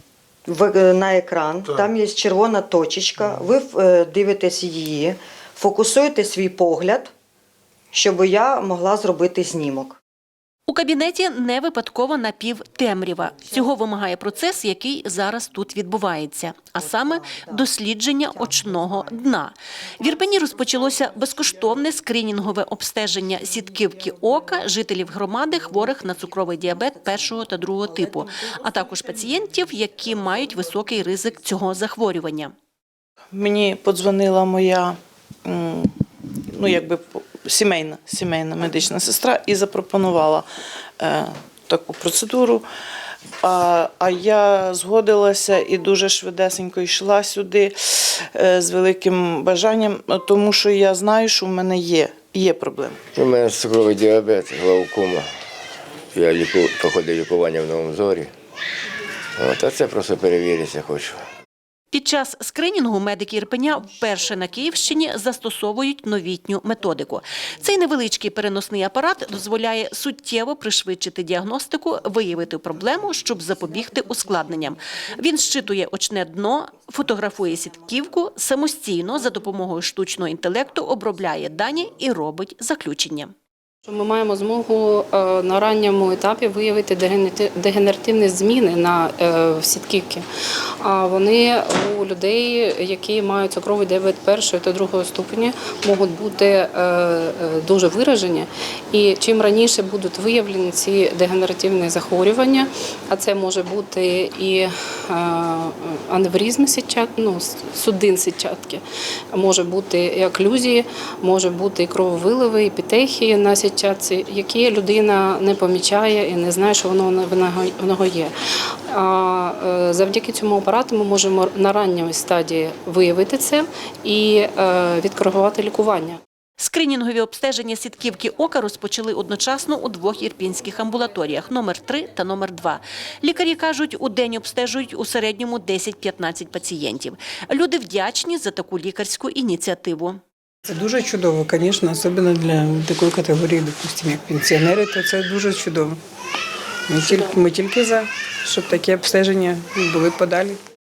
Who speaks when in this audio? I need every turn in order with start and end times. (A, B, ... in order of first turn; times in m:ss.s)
0:00.5-0:07.1 A
0:07.9-0:10.0 A
0:10.7-0:32.5 B
0:17.0-0:17.7 A
0:33.3-0:35.9 C
0:36.5-0:40.4 C
0:41.0-0:42.6 C
0:43.4-0:52.9 C
0:53.1-0:55.3 D
0:56.1-0:58.3 D
0:59.4-1:01.2 D
1:01.9-1:23.3 B
1:23.8-1:30.2 E
1:30.8-1:58.3 E
1:58.9-2:06.2 E
2:06.6-2:20.2 B
2:20.7-2:26.0 F
2:26.9-2:30.6 F